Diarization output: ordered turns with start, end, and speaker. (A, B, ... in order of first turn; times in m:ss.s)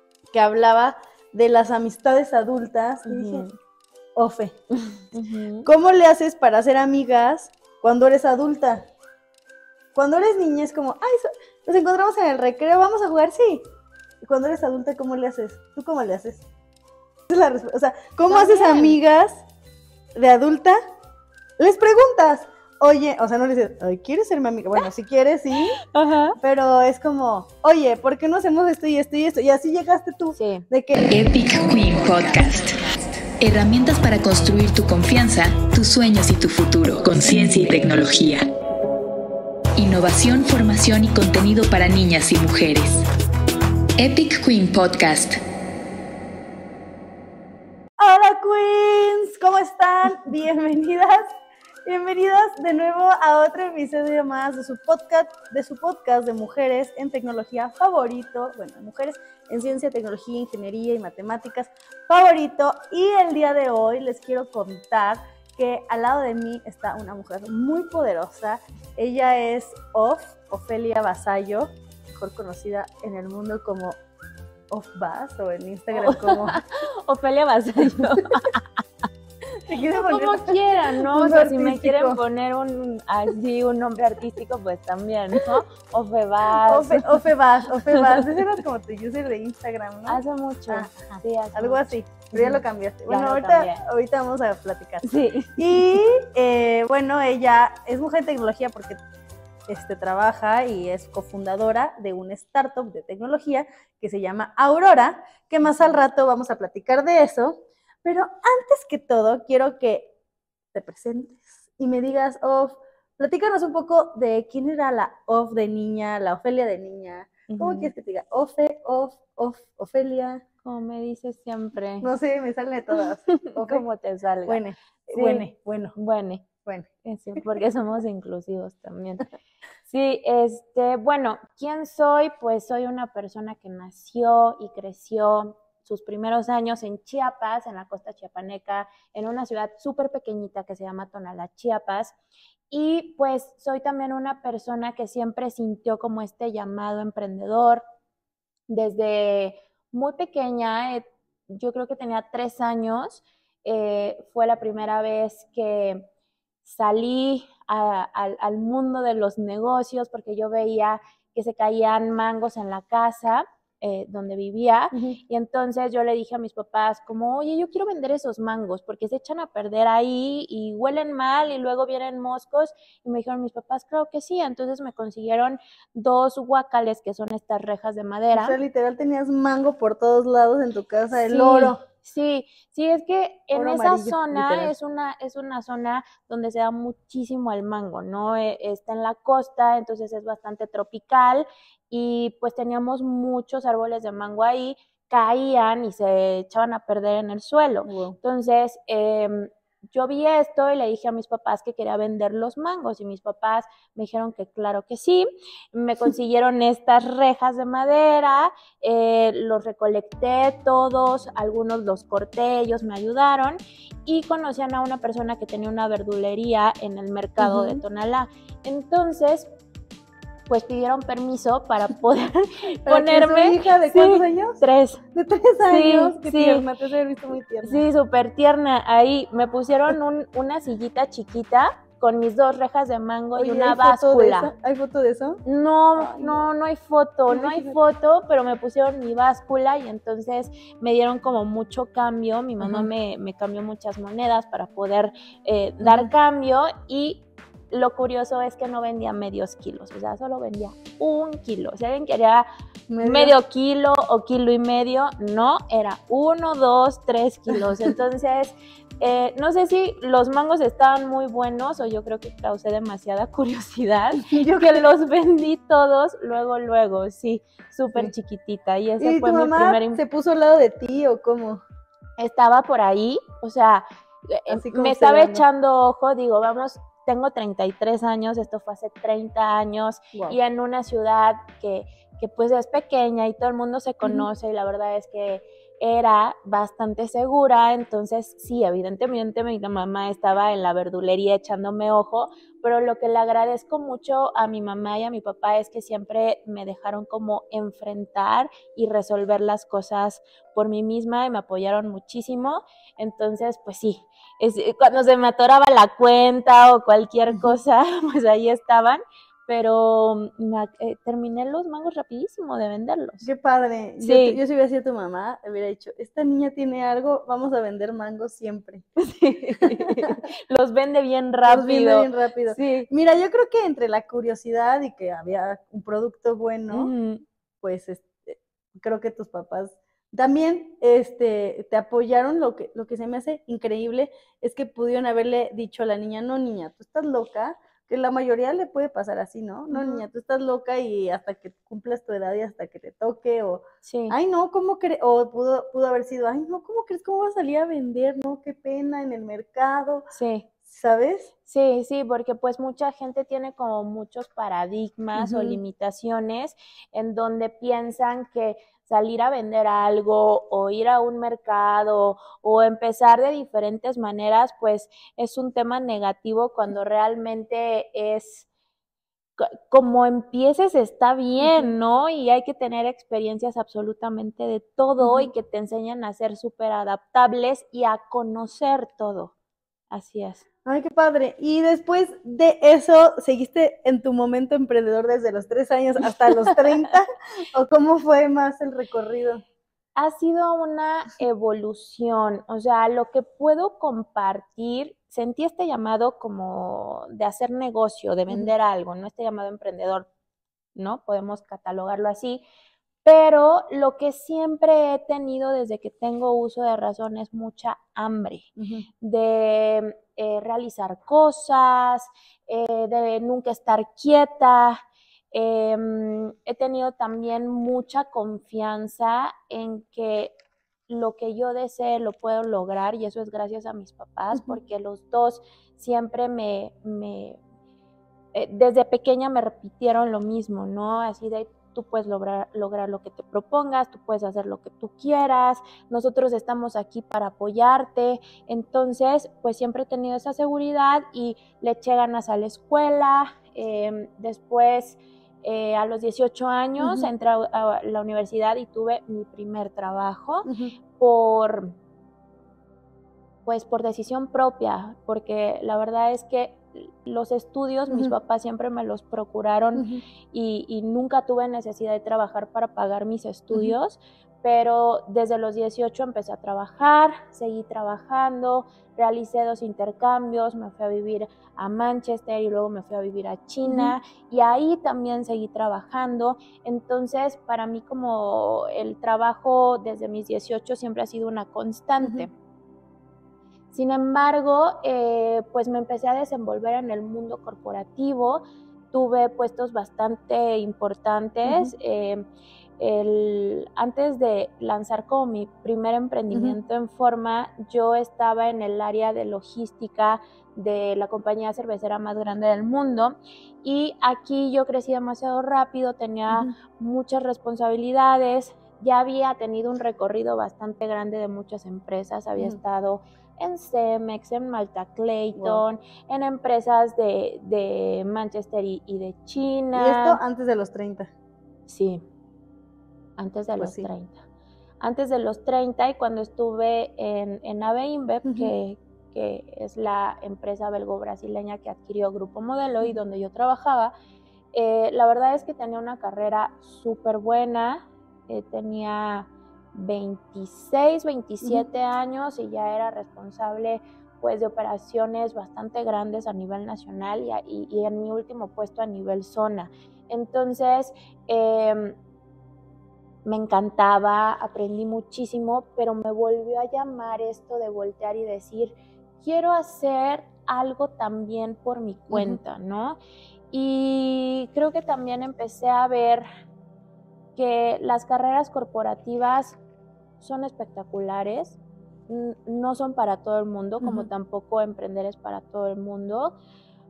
0:00.3-0:03.5 A
0:03.0-0:03.5 B
0:04.2-0:04.6 A
0:04.9-0:05.7 B
0:05.6-0:08.9 A
0:09.9-0:13.6 A
0:14.2-0:16.4 A
0:17.3-0:19.4 A
0:18.3-0:19.0 B
0:20.1-0:20.8 A
0:21.6-0:25.8 A
0:25.9-0:26.4 B
0:26.4-0:31.1 A
0:30.3-0:30.6 B
0:31.1-0:32.8 C
0:33.4-0:38.5 C
0:39.8-0:43.0 C
0:44.0-0:45.4 C
0:48.0-0:51.2 A
0:51.8-1:14.0 A
1:14.7-1:16.6 A
1:15.9-1:18.8 B
1:19.6-1:22.2 A
1:19.9-1:27.2 B
1:26.6-1:39.0 A
1:27.8-1:28.4 B
1:30.0-1:33.8 B
1:35.0-1:36.0 B
1:39.7-1:50.1 A
1:50.7-2:00.4 A
1:57.5-1:57.9 B
2:00.6-2:02.1 B
2:02.0-2:03.8 A
2:02.9-2:04.6 B
2:04.4-2:06.0 A
2:05.1-2:06.5 B
2:06.6-2:07.4 A
2:07.0-2:09.2 B
2:09.8-2:22.2 B
2:22.7-2:27.8 B
2:28.7-2:36.1 B
2:36.6-2:58.6 B
2:44.9-2:45.2 A
2:58.3-3:01.8 A
3:01.1-3:39.5 B
3:03.5-3:04.7 A
3:17.8-3:18.2 A
3:37.4-3:37.8 A
3:40.5-3:45.0 B
3:42.9-3:44.6 A
3:45.1-3:47.8 A
3:45.6-3:46.7 B
3:47.6-3:54.5 B
3:53.4-3:55.4 A
3:55.4-4:12.4 B
3:56.0-3:56.5 A
3:57.3-3:57.8 A
4:02.6-4:02.9 A
4:05.8-4:06.1 A
4:12.9-4:13.3 A
4:13.0-4:30.0 B
4:24.2-4:24.8 A
4:29.0-4:31.6 A
4:32.2-5:13.3 B
4:34.5-4:35.4 A
4:44.0-4:44.3 A
5:13.2-5:18.8 A
5:14.0-5:14.4 B
5:19.0-5:22.9 B
5:19.6-5:20.2 A
5:21.4-5:26.9 A
5:26.7-5:27.2 B
5:27.6-5:50.1 A
5:39.7-5:40.0 B
5:43.8-5:44.1 B
5:50.1-5:50.5 B
5:50.6-5:51.3 A
5:51.5-6:08.4 B
5:55.2-5:55.6 A
6:09.4-6:19.3 B
6:11.4-6:11.7 A
6:15.0-6:15.3 A
6:19.9-6:20.4 B
6:20.6-6:29.4 A
6:26.1-6:26.9 B
6:30.0-6:40.1 B
6:40.7-6:42.4 B
6:43.0-6:48.5 B
6:48.6-6:48.9 A
6:49.0-6:54.8 B
6:55.3-7:00.4 B
7:00.9-7:07.4 B
7:04.3-7:04.6 A
7:08.3-7:31.8 B
7:26.8-7:27.1 A
7:30.4-7:30.7 A
7:33.4-8:02.3 B
7:39.7-7:40.0 A
7:53.6-7:53.9 A
8:02.0-8:02.3 A
8:03.7-8:12.3 B
8:11.4-8:11.7 A
8:12.8-8:40.2 B
8:16.3-8:16.6 A
8:26.3-8:26.5 A
8:35.4-8:35.6 A
8:39.7-8:41.1 A
8:41.7-8:42.0 B
8:43.2-8:44.2 B
8:43.6-8:43.9 A
8:44.8-8:53.9 B
8:48.2-8:48.5 A
8:54.5-9:12.0 B
9:13.2-9:23.0 B
9:22.1-9:22.4 A
9:23.5-9:26.3 B
9:27.4-9:29.6 B
9:30.2-9:36.4 B
9:33.8-9:34.1 A